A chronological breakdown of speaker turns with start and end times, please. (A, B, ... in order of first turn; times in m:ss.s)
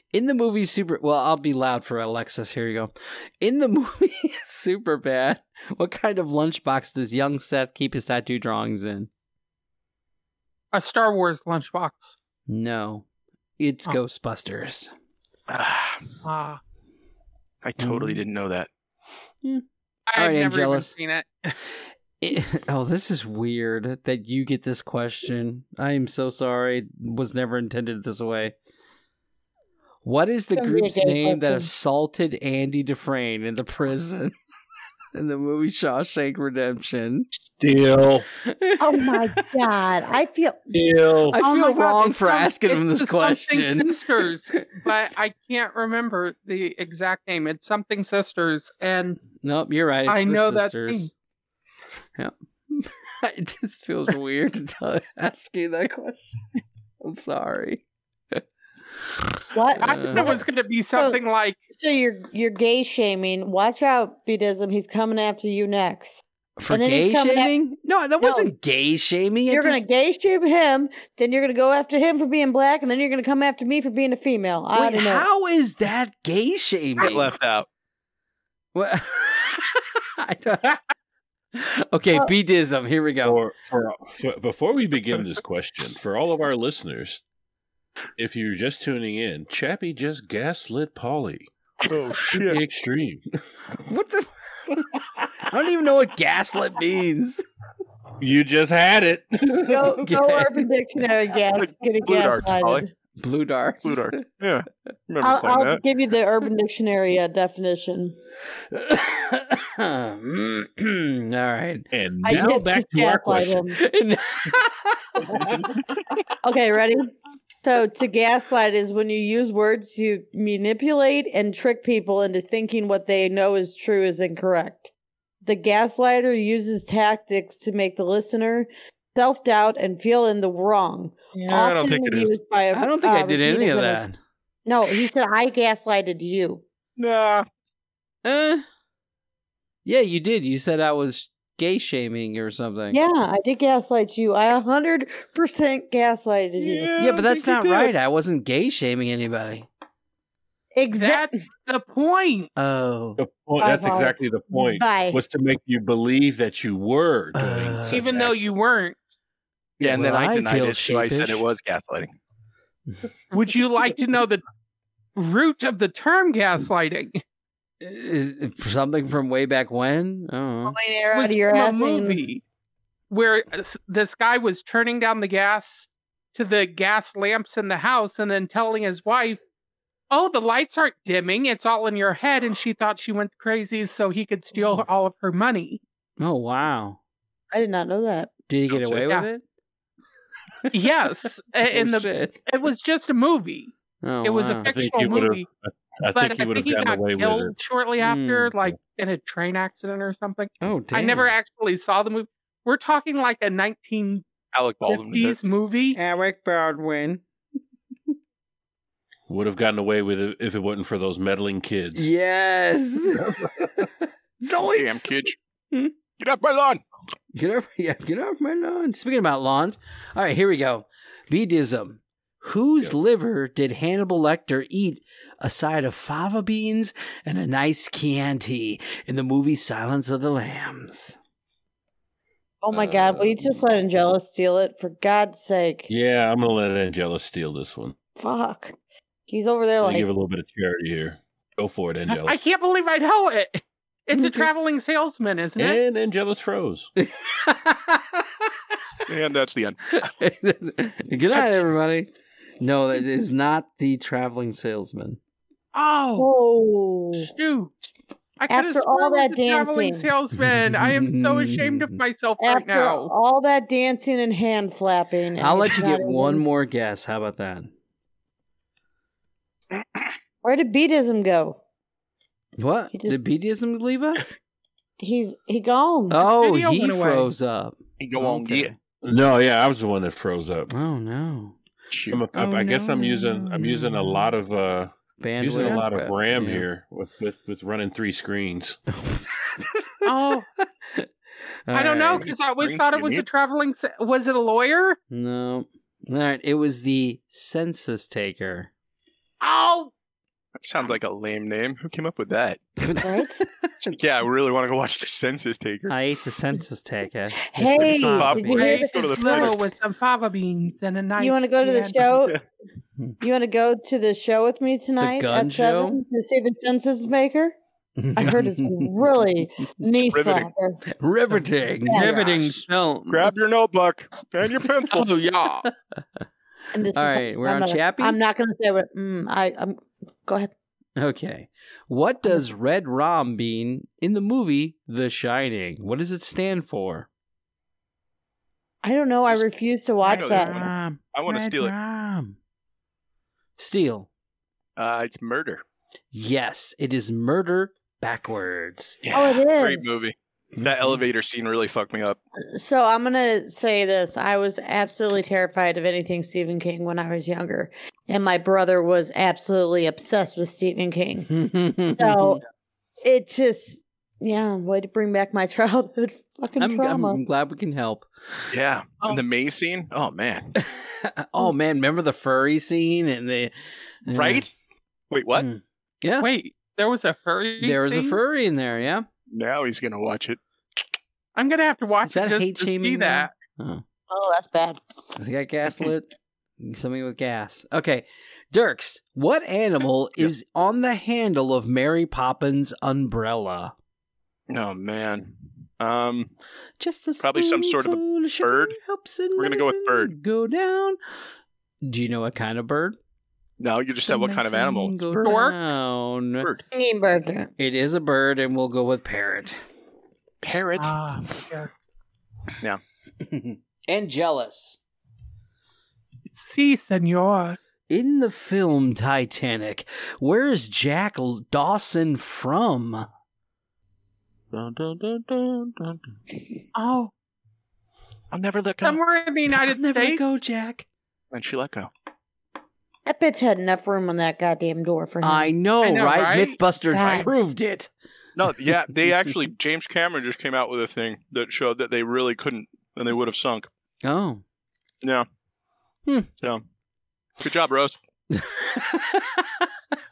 0:00.1-0:09.1 A
0:10.7-0:12.1 B
0:12.5-0:13.0 A
0:13.6-0:14.9 A
0:15.5-0:16.1 C
0:16.2-0:16.6 B
0:17.6-0:18.7 C
0:17.8-0:18.2 A
0:19.4-0:20.9 A
0:20.1-0:21.2 B
0:21.4-0:28.5 A
0:30.0-0:34.4 A
0:30.6-0:31.7 D
0:35.2-0:37.3 A
0:37.5-0:38.3 E
0:38.4-0:39.4 A
0:38.8-0:40.7 D
0:40.7-0:41.4 E
0:41.3-0:44.8 A
0:41.4-0:49.2 B
0:49.4-0:51.1 A
0:50.1-0:51.1 B
0:52.2-0:56.4 A
0:57.0-0:58.4 A
0:59.5-1:00.4 D
0:59.8-1:01.6 B
0:59.8-1:00.4 A
1:01.8-1:07.6 D
1:06.6-1:09.8 A
1:08.2-1:08.5 D
1:09.5-1:15.3 D
1:14.7-1:17.3 A
1:17.0-1:17.7 C
1:18.8-1:20.8 A
1:21.6-1:23.4 A
1:23.2-1:27.2 E
1:28.2-1:31.5 E
1:31.9-1:32.6 C
1:32.3-1:33.4 E
1:33.9-1:37.4 A
1:38.2-1:39.8 E
1:39.7-1:42.9 D
1:40.0-1:40.6 A
1:41.6-1:42.8 C
1:43.2-1:44.3 A
1:43.8-1:45.8 C
1:45.2-1:48.2 D
1:48.7-1:51.9 A
1:51.9-1:53.6 E
1:52.2-1:53.8 D
1:53.8-1:55.7 A
1:56.4-1:57.1 D
1:57.6-2:04.9 D
2:05.4-2:14.0 D
2:11.4-2:12.4 C
2:12.7-2:14.2 A
2:14.7-2:16.6 D
2:17.0-2:17.5 C
2:18.2-2:18.6 A
2:19.8-2:23.0 A
2:22.9-2:27.0 D
2:26.6-2:27.5 C
2:27.0-2:29.7 A
2:27.2-2:27.8 B
2:30.8-2:31.3 D
2:30.9-2:32.5 B
2:32.6-2:33.2 A
2:33.2-2:38.4 E
2:33.6-2:35.2 D
2:37.4-2:38.1 A
2:37.9-2:39.0 B
2:39.8-2:41.4 A
2:39.8-2:42.1 C
2:43.3-2:44.4 B
2:45.2-2:47.2 B
2:47.8-2:50.8 A
2:50.7-2:52.2 D
2:51.1-2:52.4 B
2:53.1-2:59.4 B
3:00.1-3:05.8 B
3:06.2-3:07.0 A
3:07.5-3:08.3 D
3:08.5-3:09.4 A
3:10.7-3:13.7 B
3:11.7-3:12.4 A
3:14.0-3:14.7 A
3:14.2-3:15.5 B
3:14.7-3:17.6 E
3:16.1-3:24.2 B
3:18.0-3:18.5 A
3:20.6-3:21.3 A
3:24.5-3:25.3 C
3:24.9-3:26.0 B
3:26.0-3:27.2 A
3:29.3-3:32.1 E
3:32.0-3:33.2 A
3:33.2-3:33.9 E
3:33.8-3:35.2 A
3:34.6-3:35.4 C
3:36.2-3:36.8 C
3:37.4-3:51.2 A
3:52.6-3:55.9 D
3:52.7-3:53.4 E
3:55.9-3:58.0 E
3:58.2-3:58.8 D
3:59.3-4:00.1 D
3:59.8-4:02.4 E
4:02.1-4:05.8 B
4:04.2-4:04.5 D
4:05.6-4:06.9 E
4:07.0-4:08.2 A
4:09.1-4:09.8 C
4:09.9-4:15.2 A
4:15.7-4:16.3 B
4:16.2-4:17.3 D
4:17.2-4:17.8 B
4:18.4-4:23.1 B
4:18.5-4:20.1 D
4:20.3-4:22.0 A
4:22.4-4:26.4 D
4:25.4-4:27.7 A
4:30.4-4:31.6 D
4:32.6-4:34.4 A
4:32.9-4:33.2 D
4:35.0-4:36.2 D
4:36.1-4:38.8 A
4:36.3-4:37.3 B
4:38.0-4:38.7 C
4:39.0-4:40.7 E
4:40.7-4:41.6 A
4:41.9-4:42.2 C
4:42.1-4:48.8 E
4:42.3-4:44.3 A
4:45.2-4:46.6 A
4:48.9-4:50.0 A
4:50.0-4:50.5 B
4:50.6-4:51.1 A
4:51.7-4:52.3 A
4:51.7-4:55.0 B
4:52.6-4:53.3 C
4:55.1-4:58.7 A
4:59.4-4:59.9 B
5:00.6-5:02.6 C
5:02.8-5:03.9 A
5:03.0-5:03.4 D
5:03.9-5:05.9 C
5:05.9-5:08.6 A
5:07.5-5:09.3 D
5:07.6-5:09.6 C
5:08.6-5:12.2 B
5:11.2-5:12.4 D
5:13.2-5:17.6 D
5:15.0-5:16.0 A
5:18.0-5:19.0 A
5:18.2-5:20.8 D
5:20.1-5:20.5 C
5:21.0-5:23.3 A
5:21.9-5:22.1 D
5:21.9-5:22.7 B
5:23.1-5:25.1 C
5:24.9-5:25.7 B
5:26.7-5:30.5 D
5:27.0-5:28.2 A
5:31.0-5:37.1 A
5:38.8-5:40.7 D
5:40.0-5:41.7 C
5:40.1-5:42.4 A
5:43.6-5:44.1 A
5:44.8-5:45.6 C
5:46.1-5:49.0 A
5:49.0-5:52.2 C
5:49.1-5:50.0 D
5:50.6-5:51.0 A
5:52.6-6:01.3 D
6:01.3-6:02.4 A
6:02.0-6:02.4 D
6:03.0-6:07.2 D
6:06.6-6:08.1 A
6:08.5-6:10.5 C
6:10.6-6:13.5 A
6:14.0-6:14.5 A
6:14.1-6:14.5 C
6:15.1-6:15.5 C
6:15.4-6:16.3 A
6:16.2-6:18.2 B
6:17.6-6:19.1 A
6:19.3-6:20.4 C
6:21.4-6:23.3 B
6:22.1-6:23.8 A
6:24.1-6:24.8 D
6:25.2-6:26.1 A
6:26.6-6:33.7 A
6:34.5-6:36.3 C
6:36.8-6:41.0 A
6:37.2-6:38.8 C
6:39.4-6:40.1 C
6:41.8-6:43.0 A
6:43.6-6:45.0 C
6:44.1-6:46.5 A
6:45.2-6:45.6 B
6:46.7-6:47.5 D
6:47.6-6:49.6 A
6:50.4-6:51.0 C
6:50.8-6:51.7 B
6:53.2-6:54.8 A
6:56.3-6:57.6 B
6:57.9-7:03.1 A
7:04.6-7:05.9 C
7:06.8-7:07.1 B
7:08.3-7:09.0 C
7:08.8-7:10.2 B
7:09.5-7:10.9 A
7:11.3-7:11.9 C
7:13.1-7:15.5 D
7:15.2-7:17.9 A
7:15.8-7:17.2 B
7:16.9-7:17.3 D
7:18.4-7:23.7 C
7:24.0-7:24.4 A
7:27.4-7:28.0 C
7:28.3-7:29.7 A